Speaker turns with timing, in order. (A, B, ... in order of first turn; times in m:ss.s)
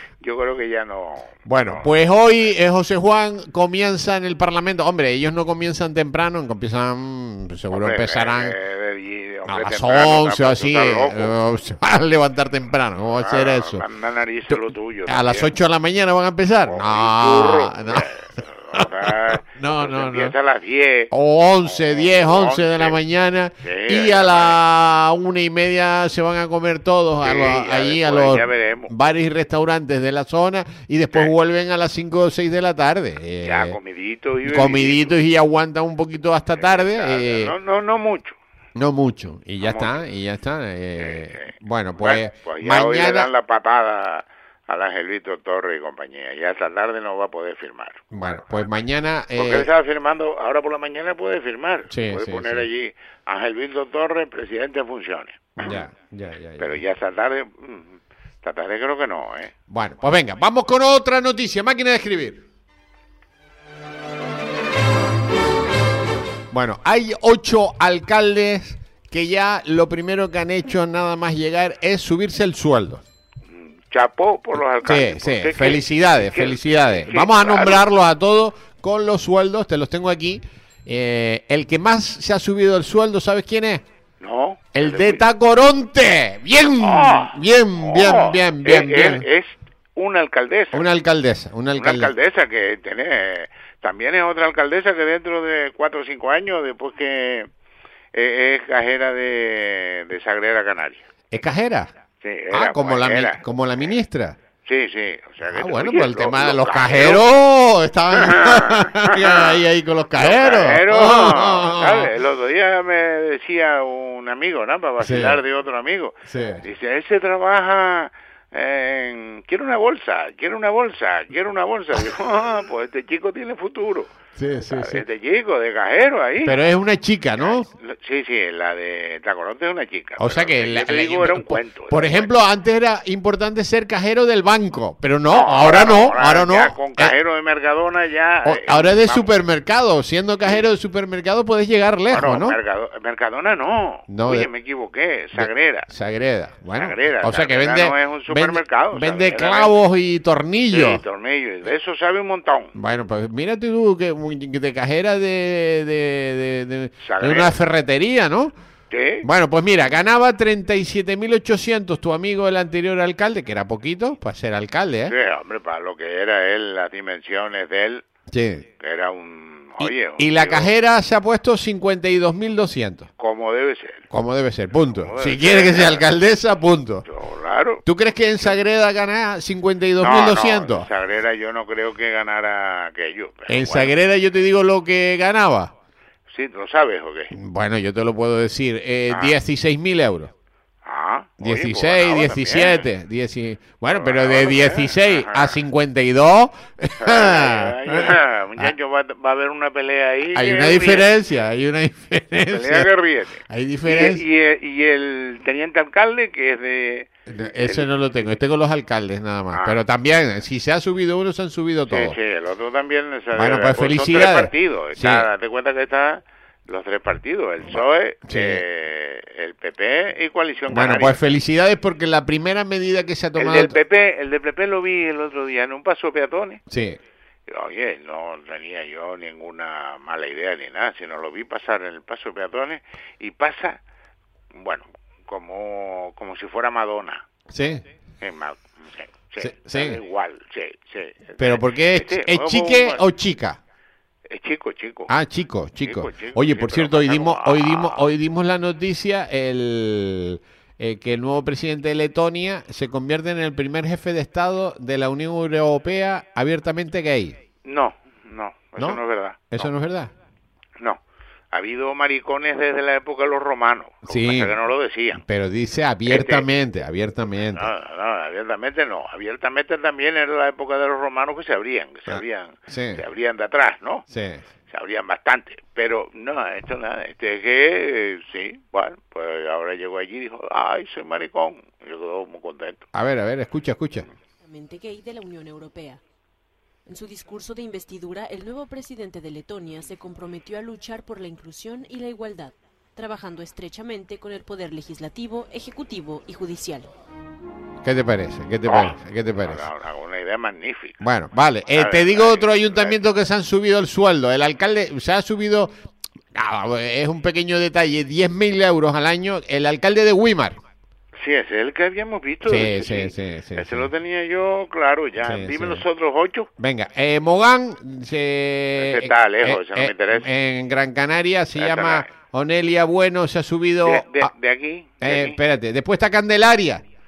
0:00.2-0:02.5 A
0:01.4-0:08.5 B
0:07.7-0:11.3 A
0:09.5-0:13.8 B
0:13.2-0:15.5 A
0:14.5-0:18.1 B
0:16.6-0:21.1 A
0:18.7-0:20.3 B
0:21.1-0:33.8 B
0:21.6-0:23.0 A
0:23.6-0:24.6 A
0:27.2-0:28.9 A
0:33.4-0:35.1 A
0:34.4-0:37.5 B
0:36.6-0:38.4 A
0:38.8-0:43.3 B
0:39.6-0:40.0 A
0:41.0-0:48.5 A
0:48.1-0:49.7 B
0:49.3-0:55.8 A
0:51.9-0:52.7 B
0:55.6-0:56.8 B
0:56.6-0:59.5 A
0:59.7-1:02.4 B
1:06.5-1:13.0 B
1:13.5-1:17.8 A
1:14.8-1:23.8 B
1:24.2-1:25.2 A
1:24.7-1:29.2 B
1:26.8-1:30.8 A
1:30.7-1:32.1 B
1:31.8-1:37.5 A
1:38.1-1:41.0 A
1:41.3-1:41.9 B
1:42.2-1:43.4 A
1:42.5-1:44.4 B
1:44.6-1:47.2 A
1:45.5-1:52.1 B
1:48.1-1:49.6 A
1:50.2-2:04.1 A
1:55.0-1:55.4 B
1:56.3-1:56.6 B
2:04.4-2:05.0 B
2:04.6-2:06.6 A
2:06.4-2:07.7 B
2:07.4-2:12.3 A
2:10.2-2:17.1 B
2:15.3-2:19.3 A
2:18.4-2:22.6 B
2:22.1-2:25.9 A
2:24.1-2:24.5 B
2:25.4-2:31.0 B
2:26.7-2:29.7 A
2:30.7-2:32.7 A
2:32.7-2:38.5 B
2:37.0-2:37.5 A
2:38.9-2:39.2 A
2:39.2-2:45.1 B
2:45.1-2:48.0 A
2:48.3-2:48.7 B
2:48.8-2:50.7 A
2:49.8-2:53.1 B
2:53.2-2:54.0 A
2:54.1-2:57.0 B
2:54.9-2:56.0 A
2:57.0-2:57.8 A
2:57.8-3:00.9 B
3:00.0-3:03.9 A
3:03.5-3:05.7 B
3:06.3-3:07.3 A
3:07.3-3:10.3 B
3:09.1-3:09.3 A
3:10.8-3:12.8 A
3:11.4-3:18.7 B
3:13.9-3:15.6 A
3:17.0-3:21.1 A
3:20.3-3:22.9 B
3:22.5-3:27.9 A
3:23.5-3:24.2 B
3:27.3-3:32.2 B
3:29.5-3:29.8 A
3:31.9-3:41.2 A
3:33.4-3:35.3 B
3:37.7-3:38.6 B
3:40.7-3:43.8 B
3:43.4-3:46.6 A
3:46.7-3:47.0 B
3:47.5-3:53.8 A
3:54.5-3:57.2 A
3:57.5-3:57.8 B
3:58.2-4:03.0 A
3:59.4-4:00.0 B
4:01.4-4:03.6 B
4:04.3-4:05.1 A
4:05.1-4:17.4 B
4:05.8-4:08.0 A
4:17.6-4:19.7 A
4:18.8-4:20.1 B
4:21.5-4:25.2 A
4:24.1-4:24.6 B
4:25.2-4:27.7 B
4:26.1-4:26.4 A
4:27.5-4:34.0 A
4:32.1-4:33.0 B
4:34.1-4:34.4 B
4:34.7-4:42.8 A
4:42.9-4:44.1 B
4:44.4-4:46.0 C
4:46.8-4:56.9 C
4:57.8-4:59.7 B
4:58.6-5:01.0 A
5:01.0-5:05.7 B
5:01.7-5:03.0 A
5:06.3-5:10.6 B
5:11.2-5:16.5 A
5:12.4-5:13.9 B
5:15.2-5:15.8 B
5:16.6-5:24.3 B
5:18.8-5:20.3 A
5:21.6-5:22.1 A
5:23.8-5:25.4 A
5:25.0-5:26.8 B